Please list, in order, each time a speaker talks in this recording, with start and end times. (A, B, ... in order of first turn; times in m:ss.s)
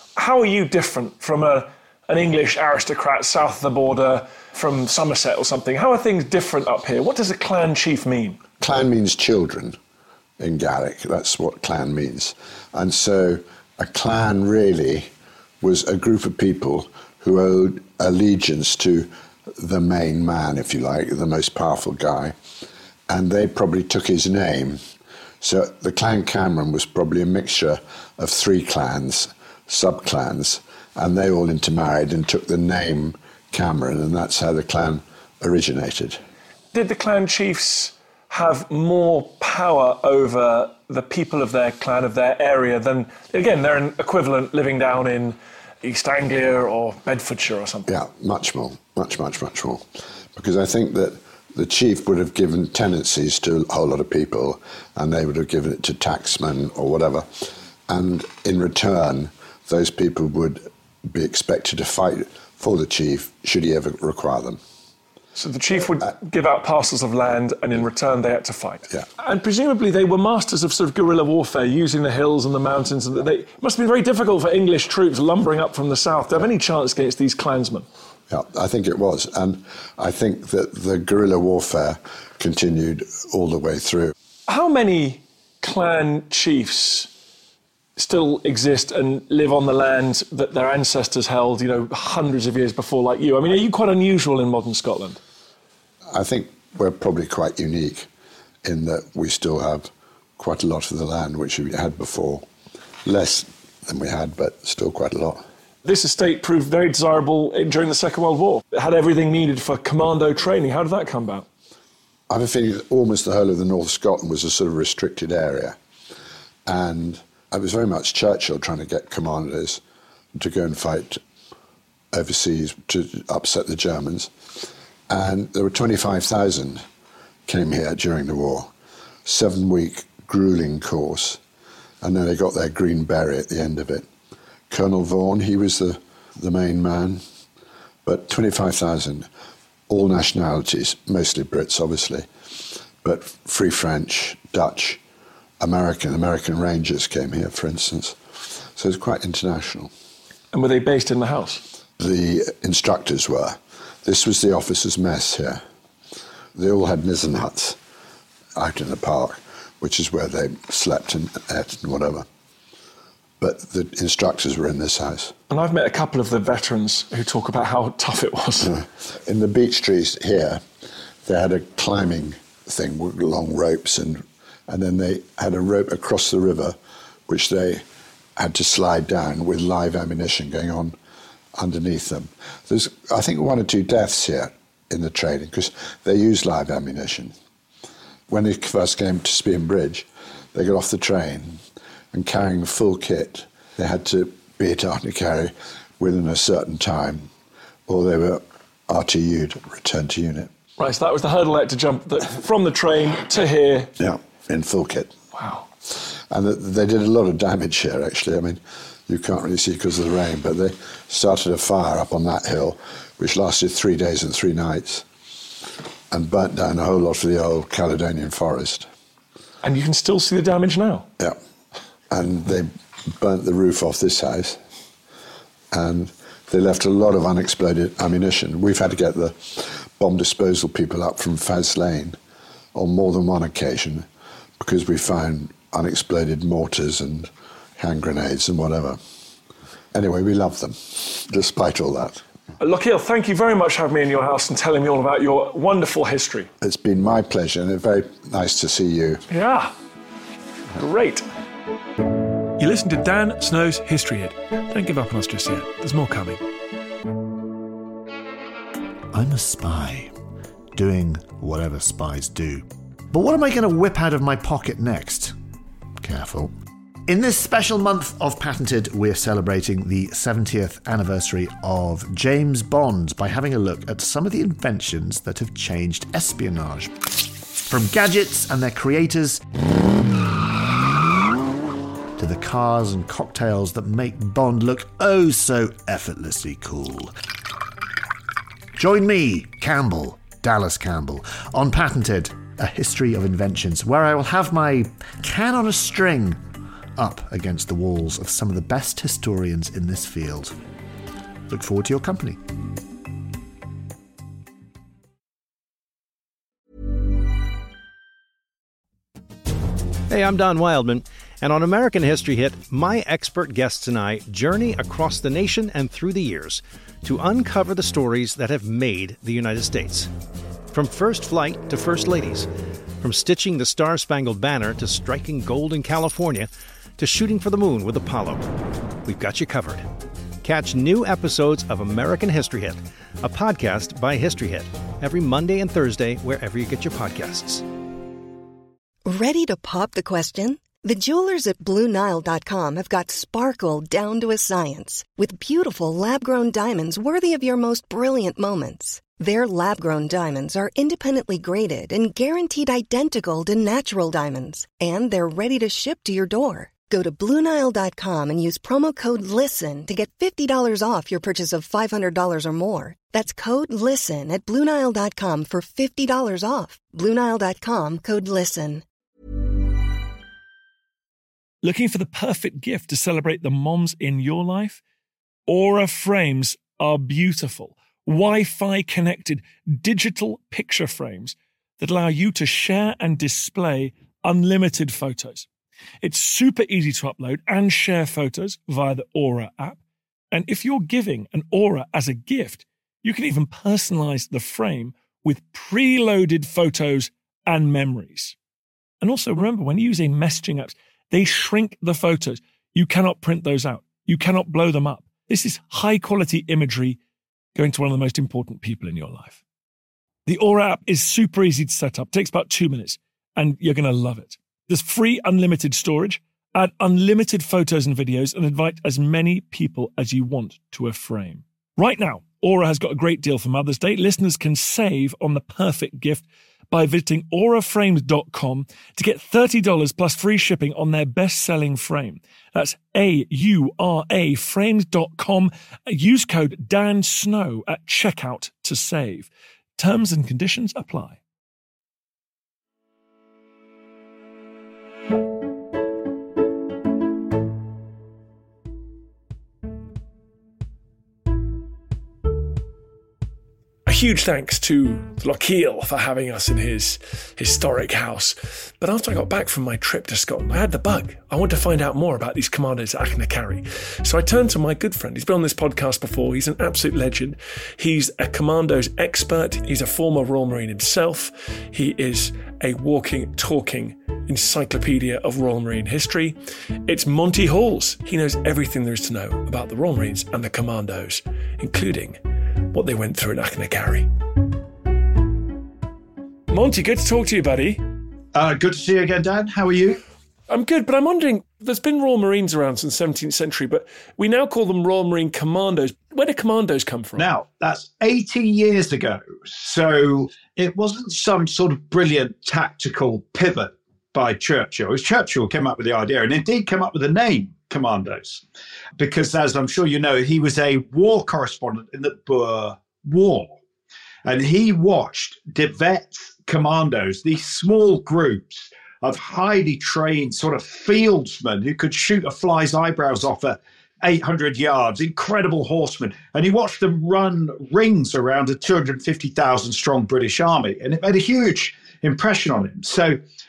0:00.2-0:08.4 A
0:08.6-0:09.8 B
0:10.4-0:22.4 B
0:23.1-0:24.8 B
0:25.4-0:36.2 B
0:36.7-0:47.9 A
0:47.9-1:04.6 B
1:05.4-1:17.8 A
1:18.3-1:24.1 B
1:24.5-1:27.1 A
1:28.0-1:35.2 A
1:36.1-1:38.1 B
1:38.6-1:42.4 B
1:43.0-1:45.4 B
1:45.8-1:51.5 A
1:52.3-1:55.8 B
1:56.6-1:59.8 B
2:00.3-2:01.2 B
2:02.1-2:04.3 B
2:05.1-2:06.8 B
2:07.4-2:08.7 B
2:09.2-2:11.4 B
2:12.0-2:14.1 B
2:14.7-2:17.2 B
2:18.0-2:19.3 B
2:19.9-2:22.3 B
2:23.0-2:25.0 B
2:25.6-2:29.9 B
2:30.5-2:31.6 A
2:32.0-2:35.6 B
2:36.5-2:37.8 B
2:38.6-2:42.3 B
2:43.4-2:45.3 B
2:45.5-2:48.7 A
2:48.6-2:50.6 B
2:51.2-2:56.8 B
2:57.3-2:57.8 B
2:58.4-3:00.9 B
3:01.5-3:07.3 B
3:08.3-3:11.6 B
3:12.1-3:17.3 B
3:17.9-3:20.5 B
3:20.8-3:23.9 A
3:24.0-3:25.2 B
3:25.4-3:25.6 A
3:26.3-3:35.0 B
3:36.1-3:38.9 B
3:39.6-3:41.1 A
3:42.1-3:44.6 B
3:45.7-3:52.2 B
3:52.7-3:54.0 B
3:54.6-3:59.0 B
3:59.9-4:02.2 B
4:02.6-4:06.5 A
4:06.6-4:09.2 B
4:09.3-4:09.7 A
4:10.7-4:11.2 A
4:12.6-4:16.4 A
4:19.1-4:20.1 C
4:20.7-4:25.3 C
4:26.0-4:26.5 C
4:27.1-4:37.0 C
4:37.7-4:39.4 C
4:42.2-4:47.1 C
4:48.7-4:56.4 C
4:57.0-5:00.5 C
5:01.5-5:02.4 C
5:10.1-5:20.1 D
5:20.7-5:22.5 D
5:23.0-5:28.4 D
5:29.0-5:29.8 D
5:30.4-5:37.6 D
5:39.0-6:08.8 E
6:11.6-6:14.8 A
6:15.5-6:25.5 A
6:26.0-6:29.8 A
6:30.3-6:38.4 A
6:39.0-6:47.0 A
6:47.6-6:49.4 A
6:50.2-7:21.2 A
7:33.8-8:02.2 A
8:02.7-8:04.1 A
8:06.5-8:07.8 A
8:08.3-8:10.0 F
8:10.5-8:17.3 A
8:17.2-8:28.4 F
8:29.0-8:33.6 F
8:34.2-8:53.2 F